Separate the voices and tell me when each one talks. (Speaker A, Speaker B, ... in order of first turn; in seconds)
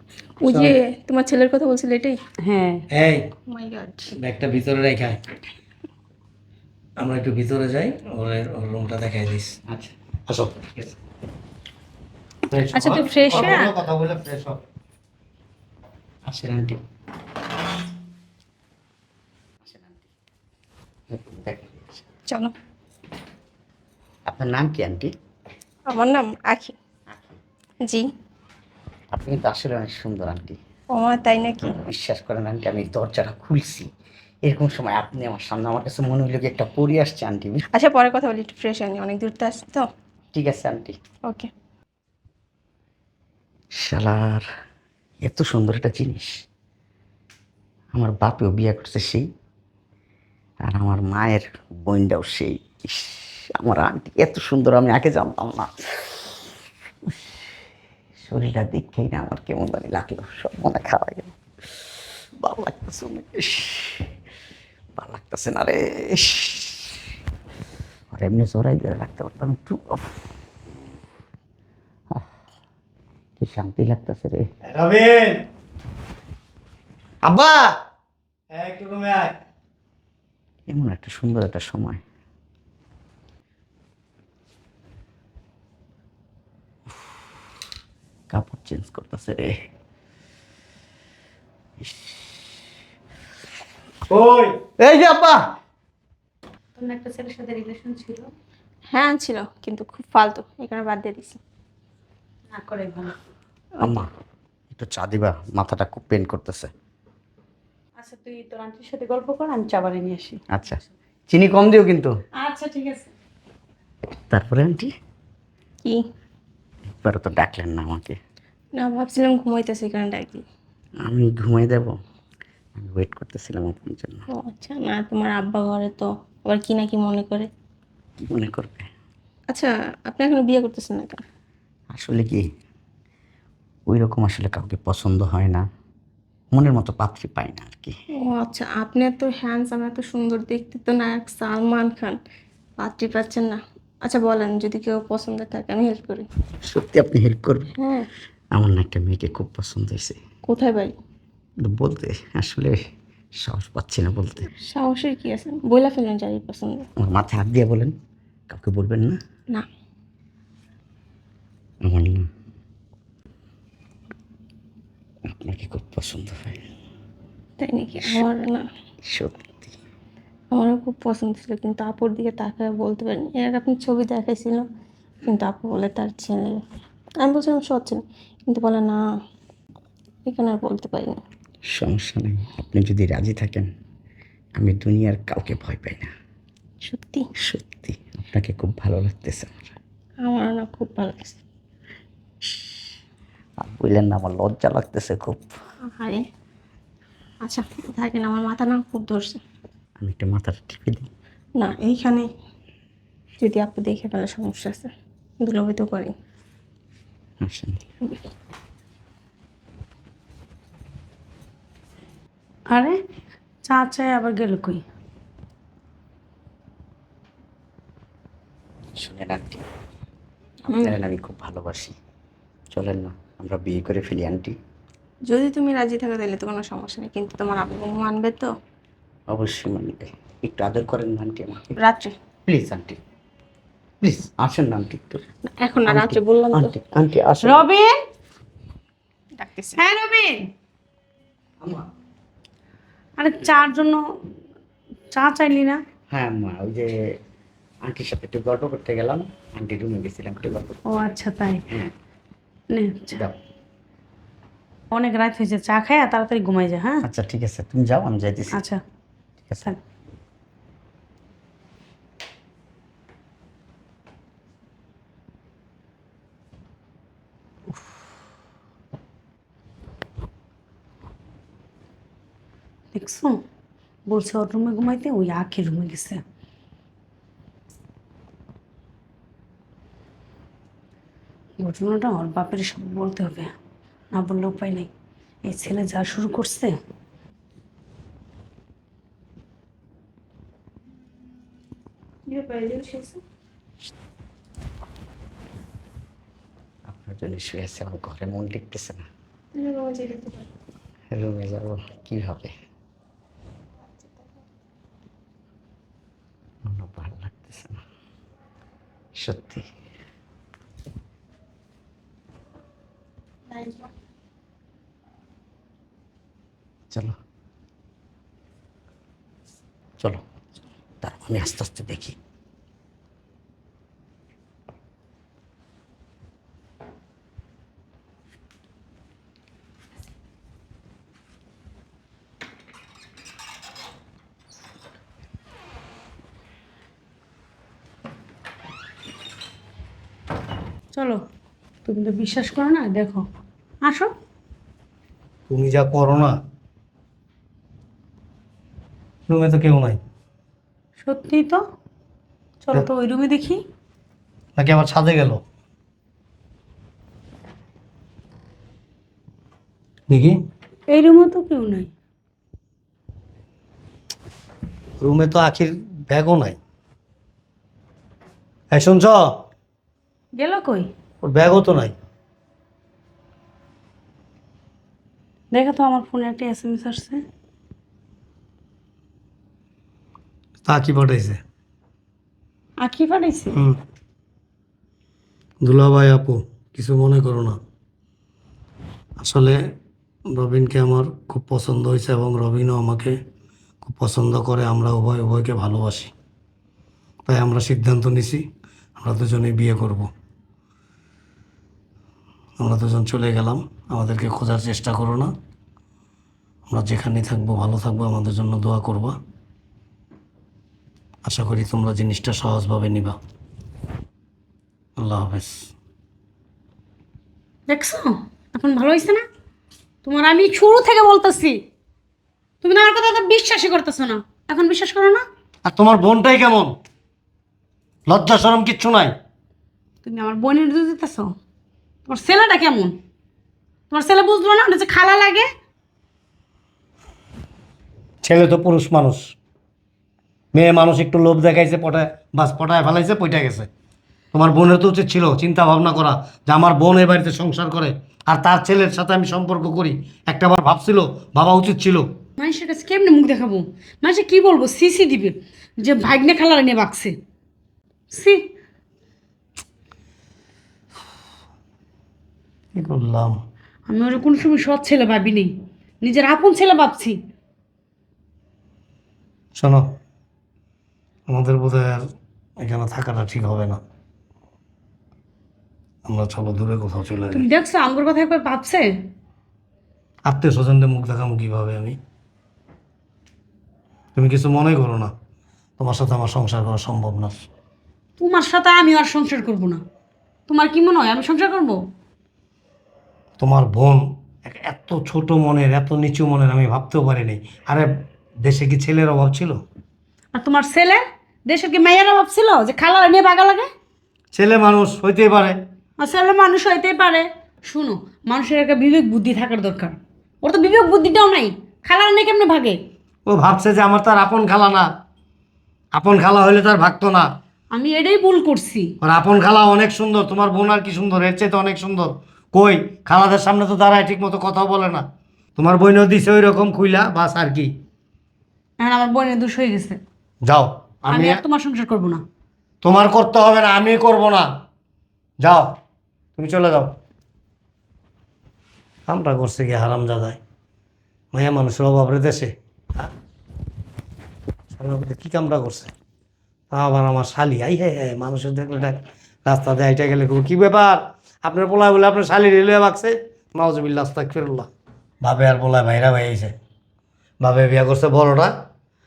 Speaker A: 0.4-2.2, 3.5-4.1, 25.9-26.8, 30.9-31.8, 37.7-39.9, 98.9-101.4, 118.8-120.4, 124.3-127.5, 129.5-131.2, 138.2-142.2, 142.8-146.3, 147.8-148.1, 150.4-150.9, 154.7-156.9, 167.6-168.7, 170.5-174.7, 175.3-176.6, 177.2-179.0, 180.3-181.2, 186.8-187.3, 190.2-191.4, 195.9-196.2, 197.4-199.4, 201.6-202.3, 203.4-204.9, 205.4-206.1, 220.7-221.0, 225.3-228.5, 231.8-232.1, 235.5-236.7, 239.4-239.8, 292.3-293.2, 299.6-300.5, 303.9-304.3, 313.5-313.9
Speaker B: 2.4-2.8, 12.7-13.7, 96.8-98.3, 102.5-103.2, 108.0-110.4, 112.4-113.1, 212.7-213.0, 213.7-214.8, 237.4-237.9, 239.8-240.5, 243.2-244.0, 245.1-245.8, 250.9-251.6, 252.7-253.2, 254.9-257.1, 258.5-258.8, 272.9-273.4, 274.1-276.2, 281.6-283.5, 284.1-284.9, 285.4-286.8, 340.9-341.2, 341.9-343.2, 343.8-344.1, 351.0-351.6, 352.6-353.6, 360.9-361.9, 370.4-370.9, 375.5-377.2, 382.8-383.6, 417.7-419.2, 420.0-421.6, 422.6-425.2, 430.0-431.4, 432.1-433.0, 433.9-435.5, 452.4-457.1, 458.1-458.4, 463.9-467.2, 477.3-478.9, 488.2-489.8, 490.5-491.8, 500.3-503.7, 506.0-512.8, 517.7-518.9, 528.8-530.0, 531.1-532.2
Speaker C: 2.9-3.3, 4.2-5.2, 7.0-9.6, 10.3-10.9, 12.5-14.6, 74.7-75.4, 77.2-77.7, 78.5-79.3, 94.1-95.4, 345.5-346.4, 349.3-350.0, 354.6-355.4, 360.1-360.4, 365.0-366.6, 368.7-369.3, 371.2-371.9, 380.6-381.4, 385.6-387.6, 389.2-389.6, 390.3-393.2, 393.8-396.1, 397.3-398.4, 399.0-400.1, 402.6-405.3, 406.7-409.2, 411.2-413.2, 415.0-415.7, 425.6-426.8, 428.1-429.1, 438.2-439.3, 440.5-443.7, 444.3-452.1, 462.8-463.4, 469.6-469.9, 471.3-472.1, 472.6-473.8, 476.1-477.4, 480.3-482.0, 484.1-485.1, 485.8-487.4, 493.4-497.9, 498.4-499.6, 504.3-505.6, 513.3-514.9, 515.9-517.3, 519.0-525.0, 525.6-527.7, 530.5-531.4, 532.8-534.5, 535.4-535.8, 536.4-537.0, 539.1-540.4, 541.3-543.1, 544.8-545.9, 546.7-554.7, 555.2-556.5, 557.4-558.5
Speaker D: 16.3-16.8, 19.6-20.1, 21.1-22.0, 24.3-25.1, 27.1-27.4, 29.1-30.6, 31.8-33.9, 34.4-37.6, 40.3-41.0, 43.8-44.5, 45.2-46.4, 47.9-49.3, 50.6-56.5, 57.0-57.5, 58.2-61.4, 62.4-64.1, 65.0-67.0, 68.1-70.2, 73.4-74.5, 80.7-82.0, 88.3-89.5, 91.8-92.4, 103.8-104.1, 104.7-106.7, 110.5-112.1, 114.3-114.9, 116.9-118.2, 121.0-122.0, 122.8-124.2, 128.2-128.9, 131.9-132.4, 133.9-135.6, 136.5-137.9, 146.6-147.7, 148.5-150.2, 151.6-152.8, 153.4-154.5, 157.0-157.9, 158.5-159.2, 161.8-162.3, 165.3-166.6, 169.1-169.7, 181.7-183.7, 184.6-186.1, 187.4-189.7, 193.6-195.5, 200.0-201.1, 207.4-207.8, 219.0-219.6, 220.7-221.9, 222.7-224.5, 229.3-231.8, 232.5-233.0, 234.0-235.2, 235.9-237.7, 246.1-246.9, 247.8-250.8, 257.0-258.6, 296.9-299.1, 301.1-302.5, 306.6-307.8, 309.2-309.7, 316.9-317.2, 321.0-322.2